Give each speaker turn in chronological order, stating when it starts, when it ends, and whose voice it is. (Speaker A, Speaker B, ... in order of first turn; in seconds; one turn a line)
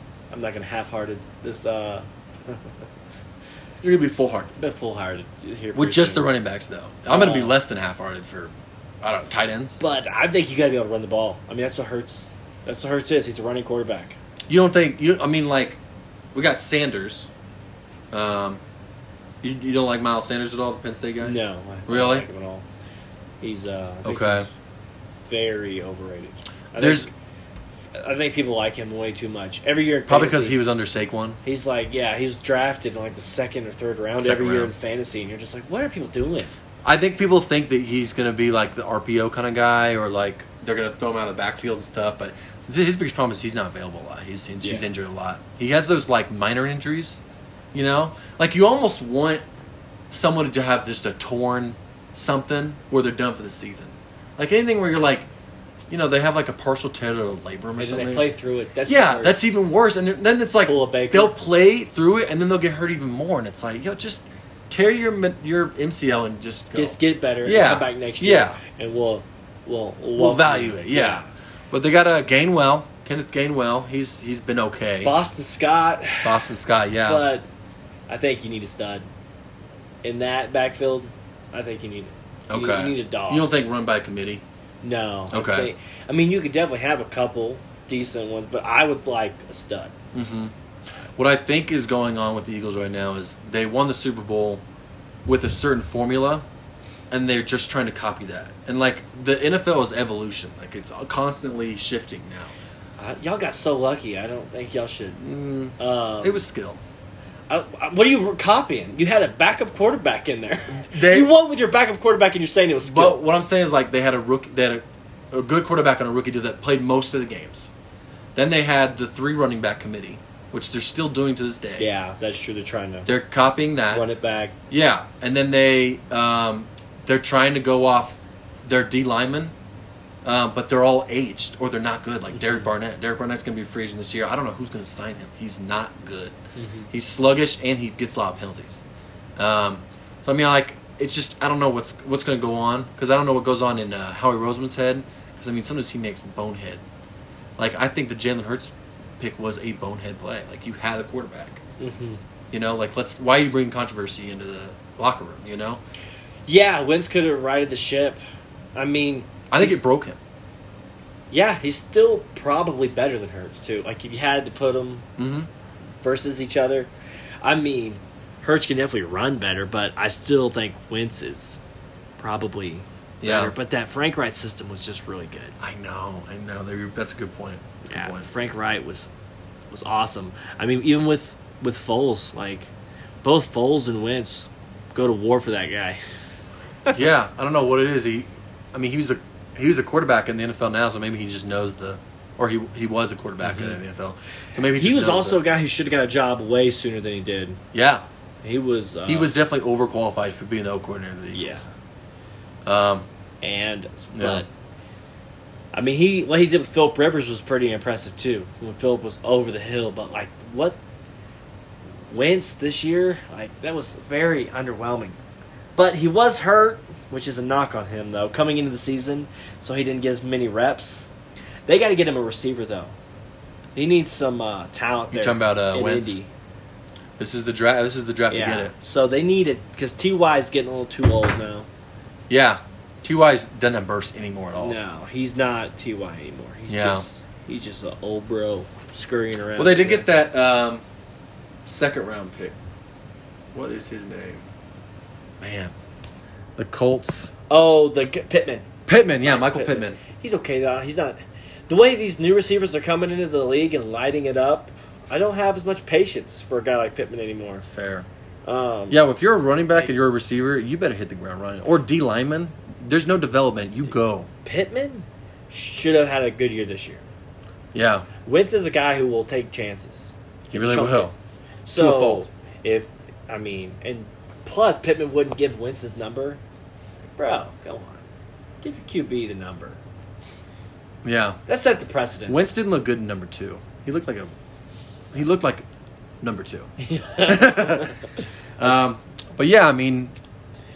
Speaker A: 0.3-2.7
Speaker B: 3.8-4.5
Speaker A: 4.6-6.3
Speaker B: 5.7-9.8
Speaker A: 7.1-7.6
Speaker A: 9.8-14.2
Speaker B: 14.5-15.8
Speaker B: 16.3-17.3
Speaker B: 18.1-18.6
Speaker B: 19.4-22.3
Speaker A: 21.2-22.6
Speaker A: 23.4-24.5
Speaker B: 24.0-24.5
Speaker A: 25.2-27.1
Speaker B: 26.8-27.1
Speaker A: 27.9-30.6
Speaker B: 30.1-31.4
Speaker A: 31.4-36.5
Speaker B: 34.2-34.7
Speaker B: 36.8-47.2
Speaker A: 44.6-44.9
Speaker B: 47.7-49.4
Speaker B: 50.1-55.3
Speaker B: 55.9-58.2
Speaker A: 57.8-59.4
Speaker B: 58.9-68.6
Speaker A: 60.6-61.4
Speaker A: 66.7-71.3
Speaker B: 70.1-75.2
Speaker A: 75.0-77.5
Speaker B: 76.2-77.2
Speaker A: 78.1-79.0
Speaker A: 80.0-83.5
Speaker B: 82.5-84.4
Speaker A: 84.8-89.9
Speaker B: 85.3-85.7
Speaker B: 90.1-90.5
Speaker B: 91.2-94.6
Speaker B: 95.2-96.4
Speaker B: 97.1-102.5
Speaker A: 103.0-105.2
Speaker B: 105.2-106.8
Speaker A: 105.8-106.4
Speaker A: 107.5-113.2
Speaker B: 110.7-111.3
Speaker B: 112.8-117.7
Speaker B: 118.3-121.9
Speaker A: 121.8-123.1
Speaker B: 123.0-124.1
Speaker A: 123.9-124.5
Speaker B: 124.7-129.5
Speaker B: 130.2-136.3
Speaker A: 132.4-132.7
Speaker A: 136.5-136.9
Speaker B: 136.9-138.8
Speaker B: 139.4-146.8
Speaker B: 147.6-151.6
Speaker A: 151.8-152.2
Speaker B: 152.5-155.8
Speaker A: 156.5-158.2
Speaker A: 158.7-159.8
Speaker B: 159.5-160.2
Speaker A: 161.3-165.1
Speaker B: 165.2-165.5
Speaker A: 166.0-166.9
Speaker A: 167.4-171.6
Speaker A: 172.2-175.6
Speaker B: 173.2-173.5
Speaker B: 175.6-178.3
Speaker A: 177.9-179.1
Speaker A: 179.7-182.7
Speaker A: 183.2-186.0
Speaker B: 186.9-195.4
Speaker A: 193.4-193.8
Speaker A: 194.7-197.6
Speaker B: 197.7-198.0
Speaker A: 198.4-199.3
Speaker B: 199.1-201.6
Speaker A: 201.3-201.7
Speaker B: 202.6-203.1
Speaker A: 203.4-204.5
Speaker B: 204.1-204.4
Speaker A: 205.7-210.8
Speaker A: 212.1-215.2
Speaker A: 215.8-221.1
Speaker A: 221.7-222.9
Speaker A: 223.8-226.3
Speaker B: 225.1-226.2
Speaker B: 227.2-228.7
Speaker A: 228.3-231.7
Speaker B: 232.3-234.8
Speaker A: 234.6-240.1
Speaker B: 236.7-237.1
Speaker B: 239.6-240.8
Speaker B: 241.7-242.6
Speaker B: 243.5-244.4
Speaker B: 245.4-245.7
Speaker B: 246.6-247.3
Speaker A: 247.5-248.7
Speaker B: 248.8-250.0
Speaker A: 249.2-251.2
Speaker A: 251.7-257.6
Speaker B: 257.6-258.1
Speaker A: 258.4-259.0
Speaker B: 258.9-264.3
Speaker A: 264.4-267.0
Speaker B: 267.7-268.1
Speaker A: 268.2-271.1
Speaker B: 270.5-271.1
Speaker A: 271.6-276.4
Speaker B: 271.7-272.3
Speaker A: 277.2-278.0
Speaker A: 278.6-279.8
Speaker B: 281.0-281.4
Speaker A: 281.5-282.5
Speaker B: 282.3-284.3
Speaker B: 285.1-285.6
Speaker B: 286.2-286.7
Speaker A: 286.8-288.7
Speaker B: 287.2-287.9
Speaker B: 288.6-290.1